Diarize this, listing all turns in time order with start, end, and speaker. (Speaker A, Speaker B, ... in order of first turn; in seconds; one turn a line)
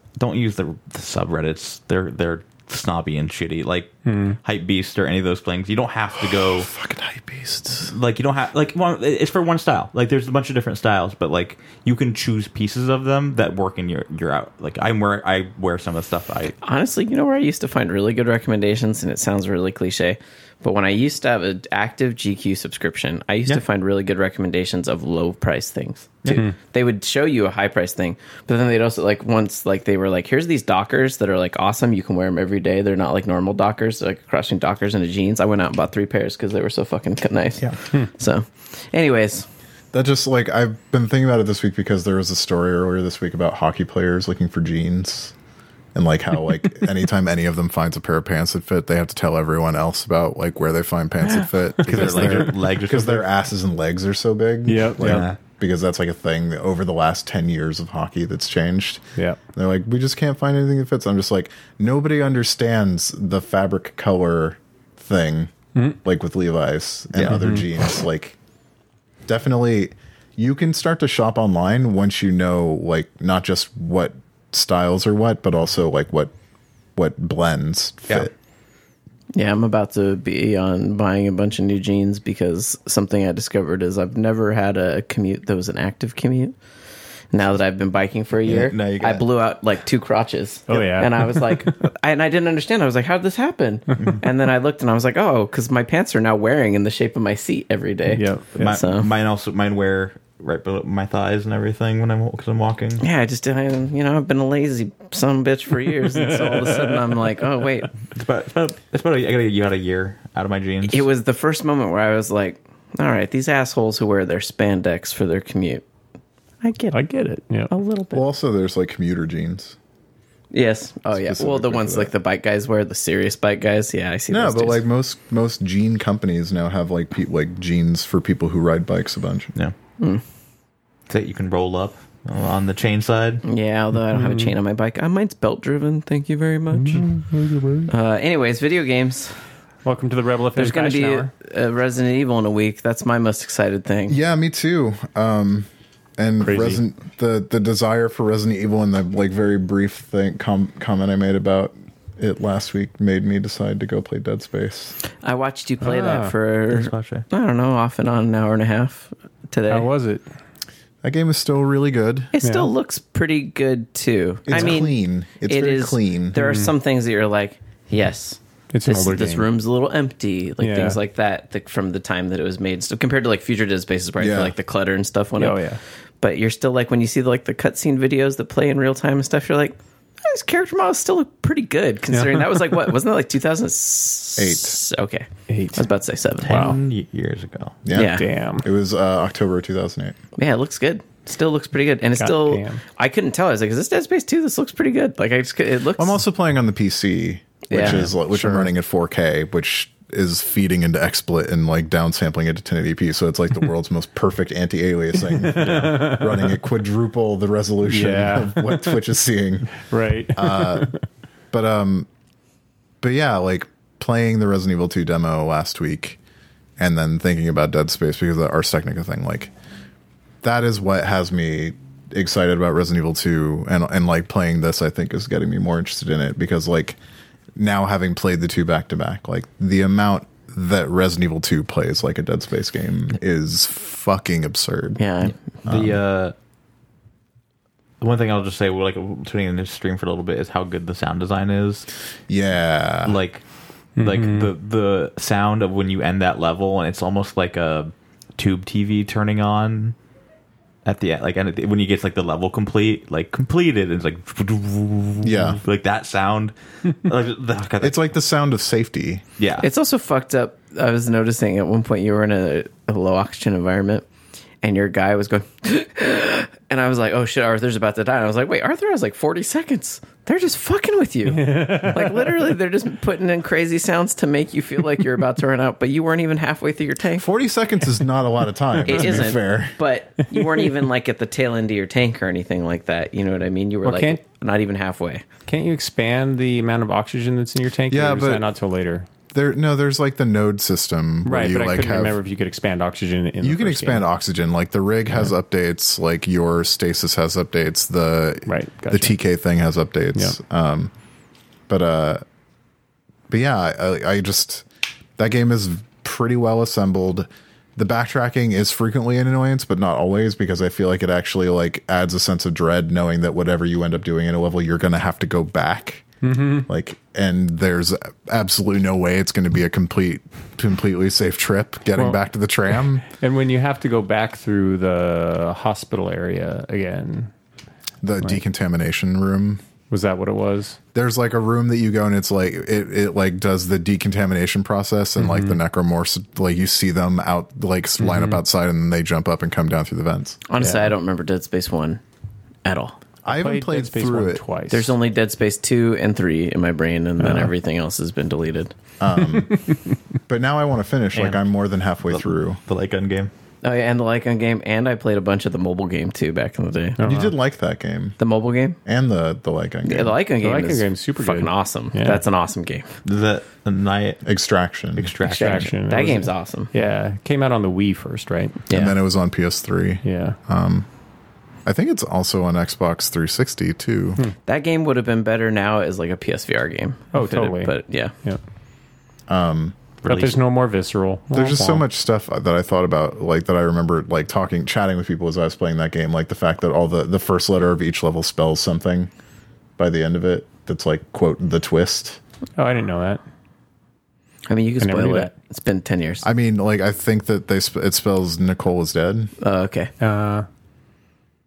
Speaker A: 0.2-6.7
Speaker B: 4.0-4.4
Speaker C: 6.2-7.9
Speaker A: 7.9-16.5
Speaker D: 16.6-39.5
Speaker C: 39.9-45.3
Speaker C: 45.9-68.3
Speaker A: 51.8-53.3
Speaker B: 51.9-52.5
Speaker B: 54.6-55.2
Speaker A: 55.0-55.4
Speaker A: 67.1-67.4
Speaker B: 67.3-67.6
Speaker C: 69.3-76.3
Speaker C: 76.9-78.3
Speaker D: 79.3-86.5
Speaker D: 87.3-99.1
Speaker A: 88.4-89.2
Speaker B: 90.7-91.8
Speaker A: 94.0-94.2
Speaker B: 98.1-98.7
Speaker A: 98.5-103.0
Speaker D: 103.0-107.9
Speaker B: 106.1-107.2
Speaker A: 108.1-111.0
Speaker D: 110.8-115.8
Speaker D: 116.6-117.0
Speaker B: 116.9-117.7
Speaker D: 117.7-118.2
Speaker C: 118.1-119.8
Speaker D: 120.5-124.8
Speaker C: 121.1-122.1
Speaker C: 124.3-129.5
Speaker A: 131.1-133.4
Speaker D: 133.4-137.1
Speaker B: 134.1-134.5
Speaker B: 136.7-137.9
Speaker D: 137.9-139.4
Speaker B: 139.8-141.3
Speaker D: 140.6-144.2
Speaker C: 144.1-154.9
Speaker B: 146.4-146.8
Speaker D: 155.2-159.9
Speaker B: 155.8-156.3
Speaker A: 156.7-157.2
Speaker B: 159.7-160.2
Speaker C: 161.0-162.3
Speaker D: 162.3-175.6
Speaker B: 162.4-162.7
Speaker C: 164.4-166.4
Speaker B: 166.4-166.7
Speaker B: 168.7-169.5
Speaker B: 170.6-171.0
Speaker C: 174.2-174.5
Speaker B: 175.4-175.8
Speaker D: 176.2-186.7
Speaker B: 182.1-182.6
Speaker C: 184.4-184.8
Speaker B: 185.5-185.8
Speaker A: 186.4-187.8
Speaker B: 186.5-186.8
Speaker C: 187.8-190.2
Speaker D: 187.9-188.2
Speaker B: 187.9-188.7
Speaker D: 190.3-196.2
Speaker B: 192.2-192.8
Speaker C: 196.0-210.9
Speaker D: 197.7-198.1
Speaker B: 197.8-198.7
Speaker B: 205.3-206.5
Speaker B: 207.8-209.0
Speaker B: 209.8-211.0
Speaker C: 211.5-212.1
Speaker C: 213.0-216.2
Speaker C: 216.8-219.5
Speaker C: 220.4-227.0
Speaker C: 227.6-235.0
Speaker D: 235.0-235.3
Speaker A: 235.6-236.3
Speaker C: 235.7-236.0
Speaker A: 238.0-241.9
Speaker C: 242.3-243.2
Speaker A: 243.0-243.4
Speaker B: 244.0-244.5
Speaker A: 244.0-249.9
Speaker A: 250.8-258.1
Speaker C: 255.2-255.6
Speaker C: 257.8-259.2
Speaker A: 259.4-259.7
Speaker D: 259.6-264.1
Speaker D: 264.6-277.2
Speaker B: 271.3-272.5
Speaker C: 277.2-279.8
Speaker D: 278.8-285.2
Speaker B: 283.8-284.2
Speaker B: 285.5-289.1
Speaker C: 287.9-288.5
Speaker C: 289.3-292.2
Speaker B: 291.2-294.0
Speaker C: 293.4-300.9
Speaker B: 298.4-299.1
Speaker C: 301.7-302.2
Speaker C: 303.3-304.6
Speaker C: 305.2-316.1
Speaker B: 316.2-316.7
Speaker C: 316.7-323.1
Speaker B: 323.1-327.3
Speaker C: 328.0-329.6
Speaker B: 329.9-330.8
Speaker C: 330.9-340.4
Speaker B: 335.2-335.6
Speaker B: 338.0-338.4
Speaker D: 340.5-342.0
Speaker B: 340.6-340.9
Speaker D: 342.6-342.9
Speaker C: 343.2-344.4
Speaker B: 343.3-344.9
Speaker D: 344.7-348.7
Speaker B: 347.2-347.5
Speaker C: 349.0-349.6
Speaker C: 350.3-352.6
Speaker A: 351.1-351.4
Speaker A: 352.1-353.3
Speaker D: 353.6-357.0
Speaker B: 357.0-357.3
Speaker C: 357.0-358.2
Speaker D: 358.2-358.8
Speaker C: 358.8-360.2
Speaker D: 359.8-362.9
Speaker B: 360.4-362.2
Speaker A: 363.0-364.2
Speaker C: 364.2-365.1
Speaker A: 364.9-365.7
Speaker D: 365.2-366.7
Speaker B: 365.3-368.6
Speaker D: 368.7-368.9
Speaker C: 368.7-370.9
Speaker B: 370.0-370.4
Speaker C: 371.6-374.2
Speaker D: 374.4-378.1
Speaker B: 377.1-378.4
Speaker C: 379.3-379.8
Speaker A: 380.0-380.4
Speaker B: 380.1-381.8
Speaker C: 381.3-389.1
Speaker C: 389.8-392.2
Speaker B: 392.6-393.2
Speaker D: 394.5-396.2
Speaker B: 394.8-395.3
Speaker C: 396.2-399.3
Speaker D: 399.4-399.9
Speaker B: 400.0-400.4